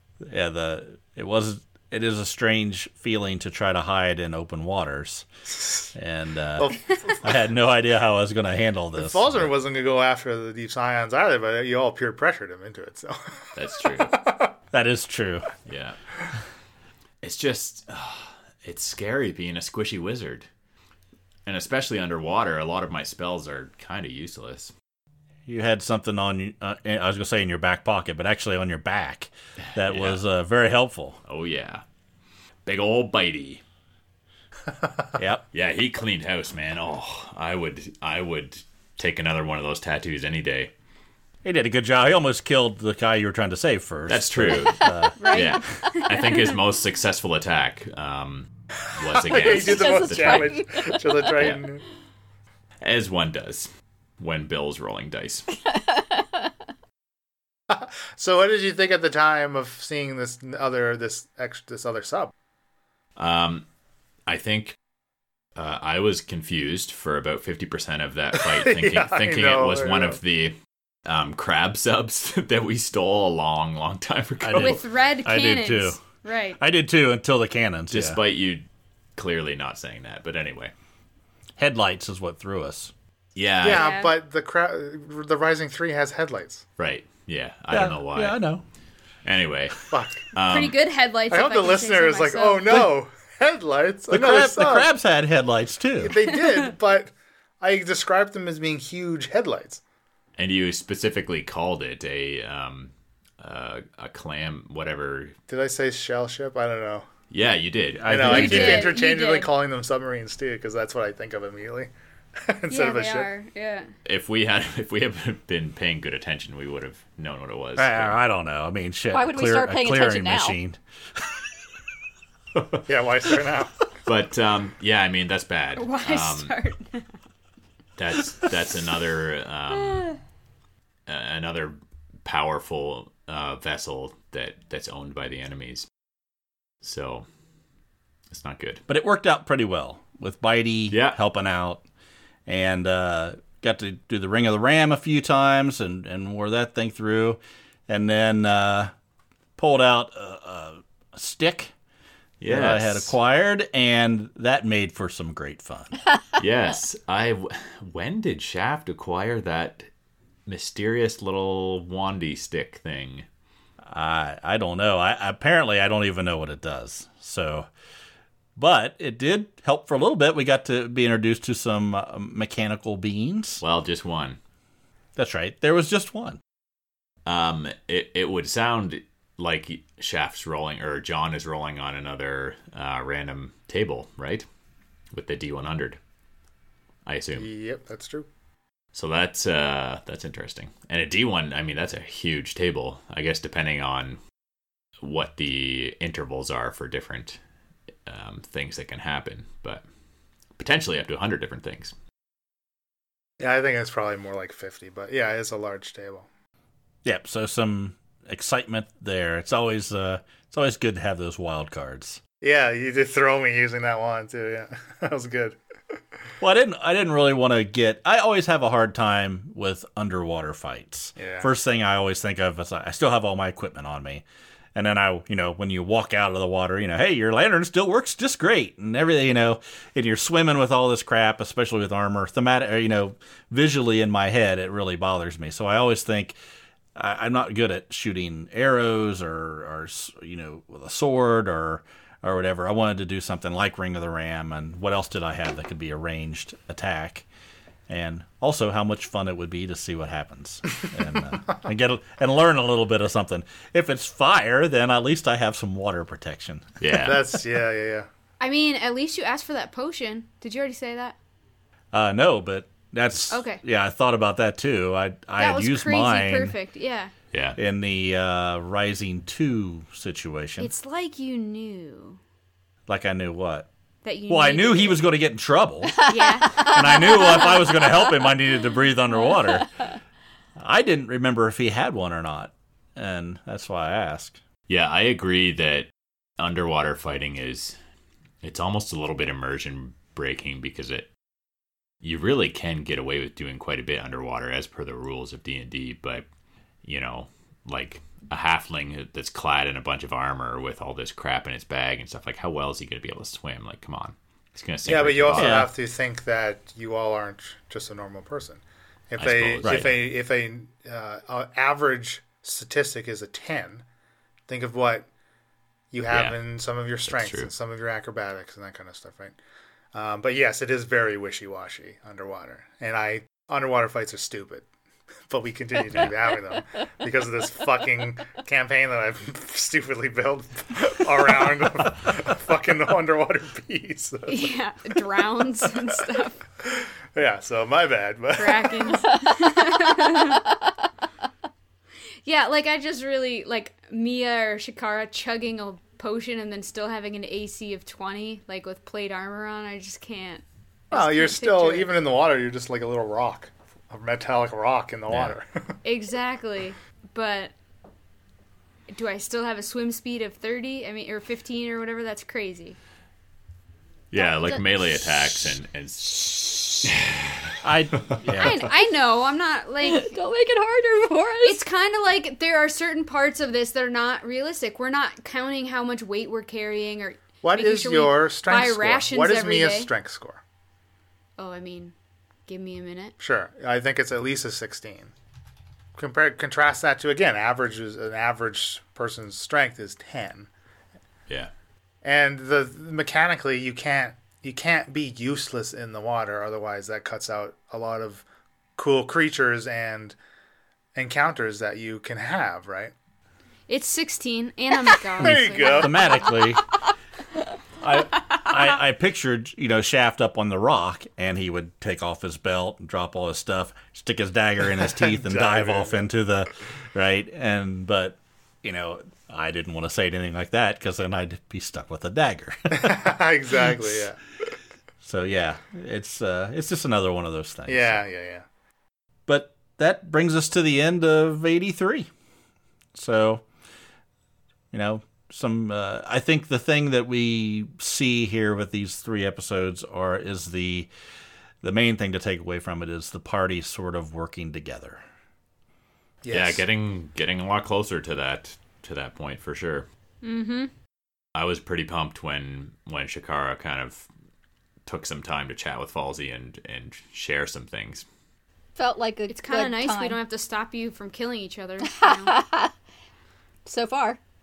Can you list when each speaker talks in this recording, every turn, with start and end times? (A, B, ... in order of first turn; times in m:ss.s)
0:00.2-0:05.3 A
0:06.0-0:06.7 A
0:06.6-0:07.4 B
0:07.2-0:09.5 A
0:09.0-0:14.5 B
0:13.6-0:14.2 C
0:14.7-0:15.5 A
0:15.7-0:16.0 C
0:17.2-0:20.5 C
0:21.5-0:24.7 C
0:25.5-0:31.2 A
0:29.6-0:30.2 C
0:31.3-0:31.8 C
0:32.7-0:33.6 C
0:35.2-0:35.4 A
0:35.5-0:40.7 C
0:41.4-0:45.3 A
0:44.1-0:50.5 C
0:45.2-0:46.4 D
0:49.1-0:51.8 B
0:49.4-0:51.3 E
0:51.4-0:51.6 C
0:52.8-0:55.5 C
0:55.7-0:56.5 E
0:57.7-1:02.3 B
1:03.2-1:03.6 C
1:04.3-1:04.8 C
1:05.6-1:14.8 C
1:08.4-1:10.2 B
1:14.4-1:16.0 A
1:14.6-1:16.6 D
1:16.6-1:18.2 A
1:17.9-1:18.6 C
1:19.2-1:20.7 C
1:21.6-1:22.9 A
1:23.4-1:23.9 C
1:23.6-1:26.6 B
1:23.6-1:24.1 D
1:26.8-1:28.4 C
1:27.7-1:28.6 A
1:29.2-1:30.8 C
1:29.9-1:30.2 B
1:30.4-1:32.8 D
1:31.3-1:34.9 B
1:34.1-1:36.2 A
1:36.0-1:39.8 B
1:40.4-1:45.4 C
1:45.5-1:47.0 B
1:47.3-1:48.7 C
1:48.0-1:48.9 A
1:48.1-1:51.9 B
1:48.2-1:49.5 D
1:52.4-1:53.3 B
1:52.7-1:53.9 D
1:54.0-1:58.2 C
1:57.8-2:00.8 A
1:59.1-2:00.6 E
2:02.9-2:03.8 B
2:04.1-2:06.5 C
2:05.8-2:07.1 D
2:08.0-2:10.1 C
2:09.7-2:10.2 D
2:11.1-2:15.9 C
2:16.8-2:17.3 C
2:18.3-2:18.8 C
2:18.9-2:21.8 A
2:20.9-2:21.2 C
2:22.5-2:28.9 A
2:29.6-2:31.7 A
2:32.4-2:33.1 C
2:32.5-2:36.0 A
2:36.4-2:39.9 C
2:40.5-2:43.3 C
2:43.9-2:47.7 A
2:48.6-2:53.6 A
2:53.6-2:54.4 C
2:55.2-2:56.4 A
2:57.3-3:04.5 C
3:05.1-3:06.0 C
3:07.1-3:07.5 C
3:07.4-3:08.3 B
3:08.9-3:14.2 C
3:15.0-3:17.4 C
3:18.1-3:19.8 C
3:20.6-3:21.9 C
3:23.4-3:26.3 B
3:27.0-3:32.2 A
3:32.4-3:35.6 B
3:36.4-3:44.2 A
3:41.2-3:41.5 B
3:44.8-3:56.4 A
3:57.0-4:07.3 A
4:07.9-4:17.4 A
4:16.8-4:17.2 C
4:17.0-4:18.1 B
4:18.4-4:21.2 D
4:21.9-4:26.6 A
4:23.3-4:23.6 D
4:25.4-4:27.1 D
4:27.3-4:27.6 C
4:27.6-4:30.7 A
4:30.6-4:32.2 D
4:32.9-4:33.7 A
4:34.0-4:35.0 D
4:34.3-4:39.7 A
4:36.0-4:38.1 E
4:36.1-4:37.4 D
4:40.6-4:44.4 A
4:44.7-4:45.9 C
4:46.4-4:47.8 C
4:48.4-4:51.1 C
4:52.0-4:56.3 C
4:56.8-5:05.7 C
5:04.9-5:13.8 B
5:05.3-5:05.7 A
5:09.2-5:10.0 C
5:09.6-5:09.9 A
5:14.5-5:15.1 B
5:15.9-5:19.4 B
5:16.1-5:16.4 C
5:17.1-5:17.5 C
5:19.9-5:24.7 B
5:25.3-5:34.5 B
5:34.3-5:36.4 D
5:36.6-5:39.0 B
5:38.4-5:40.4 D
5:42.2-5:52.0 D
5:50.9-5:55.8 B
5:55.1-5:55.4 C
5:55.8-5:57.5 D
5:58.9-6:02.8 D
6:04.1-6:08.2 C
6:06.2-6:06.9 E
6:07.6-6:08.6 A
6:08.4-6:10.1 D
6:09.8-6:11.6 E
6:11.4-6:19.9 D
6:17.4-6:20.4 B
6:21.4-6:21.9 D
6:22.5-6:23.2 D
6:23.2-6:25.1 B
6:26.0-6:30.5 B
6:32.0-6:38.2 B
6:38.8-6:40.2 B
6:41.0-6:42.9 B
6:43.7-6:46.4 D
6:45.2-6:46.1 B
6:45.3-6:46.6 A
6:47.8-7:03.0 A
6:54.8-6:56.0 B
7:02.7-7:04.2 B
7:05.0-7:08.0 A
7:07.7-7:08.4 B
7:09.3-7:12.1 A
7:13.0-7:13.4 A
7:14.7-7:20.9 A
7:21.6-7:25.0 A
7:26.2-7:26.6 B
7:26.3-7:29.9 C
7:30.2-7:30.7 D
7:31.4-7:34.1 C
7:34.9-7:38.1 C
7:38.8-7:40.2 E
7:39.3-7:42.4 D
7:41.8-7:42.7 E
7:43.7-7:44.2 E